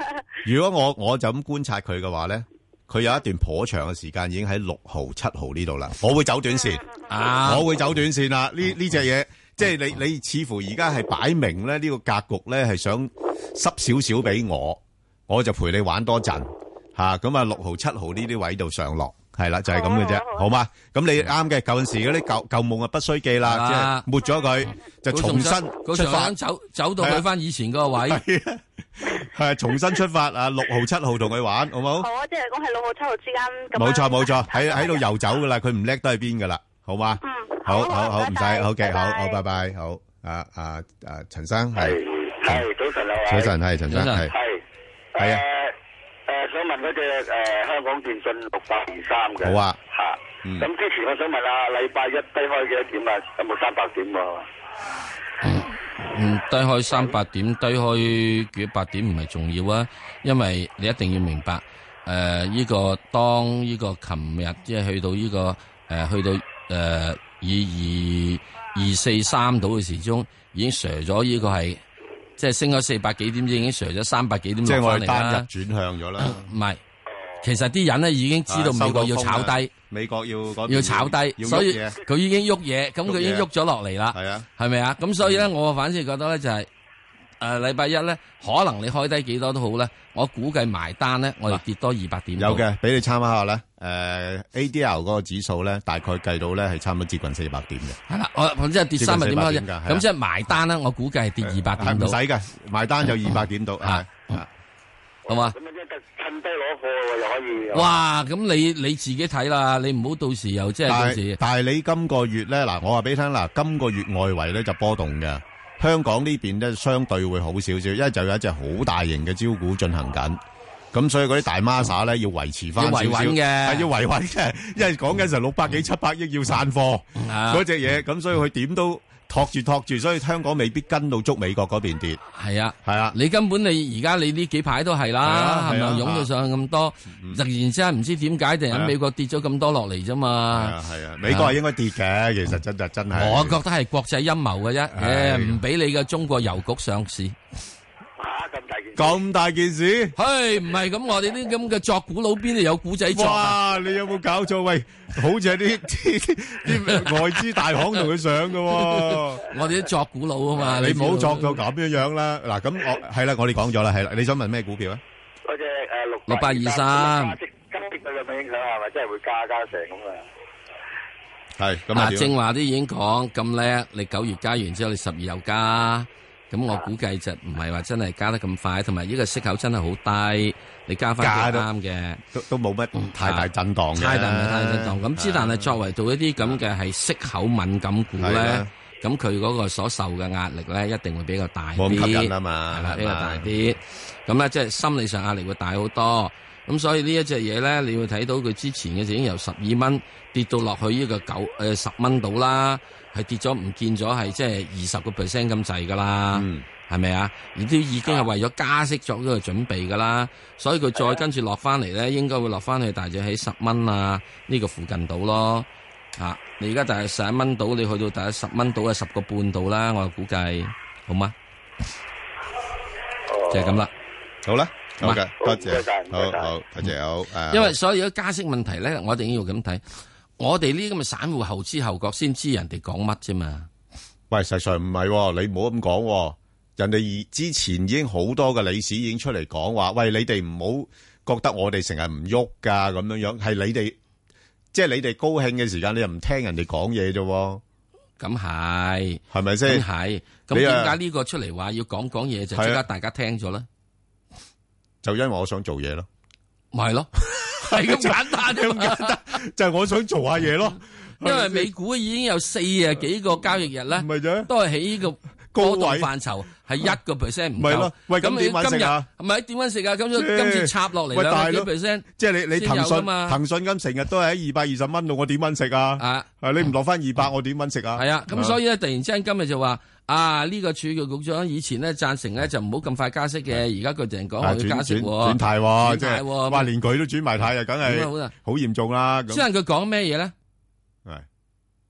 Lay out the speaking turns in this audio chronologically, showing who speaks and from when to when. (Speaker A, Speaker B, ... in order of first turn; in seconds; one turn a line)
Speaker A: 0.5-6.8
Speaker B: 7.1-7.7
Speaker A: 7.4-26.3
Speaker B: 23.5-24.1
Speaker B: 25.1-28.2
Speaker A: 27.0-27.2
Speaker A: 28.1-32.1
Speaker C: 32.2-34.9
Speaker A: 33.7-42.6
Speaker C: 37.3-39.3
Speaker D: 41.8-43.5
Speaker A: 43.3-44.3
Speaker B: 43.9-44.3
Speaker D: 44.3-44.6
Speaker D: 45.2-45.7
Speaker D: 46.3-54.4
Speaker A: 49.4-49.8
Speaker B: 55.4-71.8
Speaker B: 72.4-75.5
Speaker A: 74.7-76.5
Speaker B: 76.2-76.8
Speaker B: 77.4-79.7
Speaker A: 78.5-82.0
Speaker B: 80.7-86.7
Speaker A: 83.1-83.5
Speaker A: 84.1-84.5
Speaker A: 85.2-85.5
Speaker B: 87.4-92.6
Speaker A: 92.4-98.0
Speaker B: 98.1-102.2
Speaker A: 99.0-100.0
Speaker A: 101.4-104.5
Speaker B: 103.8-104.2
Speaker B: 105.3-105.6
Speaker D: 105.3-108.0
Speaker B: 107.7-111.4
Speaker A: 110.9-120.4
Speaker A: 120.9-132.2
Speaker B: 122.8-123.9
Speaker B: 127.2-127.7
Speaker B: 132.3-141.6
Speaker A: 132.8-133.2
Speaker A: 135.2-136.3
Speaker A: 137.1-137.4
Speaker A: 140.5-143.6
Speaker B: 143.2-147.3
Speaker A: 144.9-145.6
Speaker D: 148.2-149.2
Speaker A: 149.0-150.1
Speaker B: 150.2-153.6
Speaker A: 153.1-159.4
Speaker B: 156.9-157.4
Speaker B: 158.7-161.6
Speaker A: 160.6-165.0
Speaker D: 165.5-170.2
Speaker B: 166.3-167.4
Speaker A: 171.6-172.3
Speaker B: 171.9-182.2
Speaker A: 181.2-181.7
Speaker A: 182.3-185.7
Speaker B: 183.0-221.3
Speaker A: 188.2-188.7
Speaker A: 191.8-193.5
Speaker A: 206.3-206.7
Speaker D: 223.3-223.8
Speaker B: 223.5-223.9
Speaker A: 224.4-227.8
Speaker D: 225.4-226.5
Speaker B: 227.5-229.8
Speaker B: 230.4-233.7
Speaker A: 234.3-244.0
Speaker A: 244.7-247.6
Speaker B: 248.2-253.7
Speaker A: 249.3-249.8
Speaker A: 250.5-251.0
Speaker A: 252.6-252.8
Speaker A: 255.0-256.1
Speaker B: 256.7-259.2
Speaker A: 257.6-261.7
Speaker B: 261.2-273.4
Speaker A: 263.9-264.5
Speaker A: 265.5-266.1
Speaker A: 267.6-269.1
Speaker A: 270.1-278.6
Speaker B: 276.0-276.3
Speaker B: 278.0-286.7
Speaker A: 284.4-289.4
Speaker B: 287.8-288.3
Speaker B: 289.3-290.3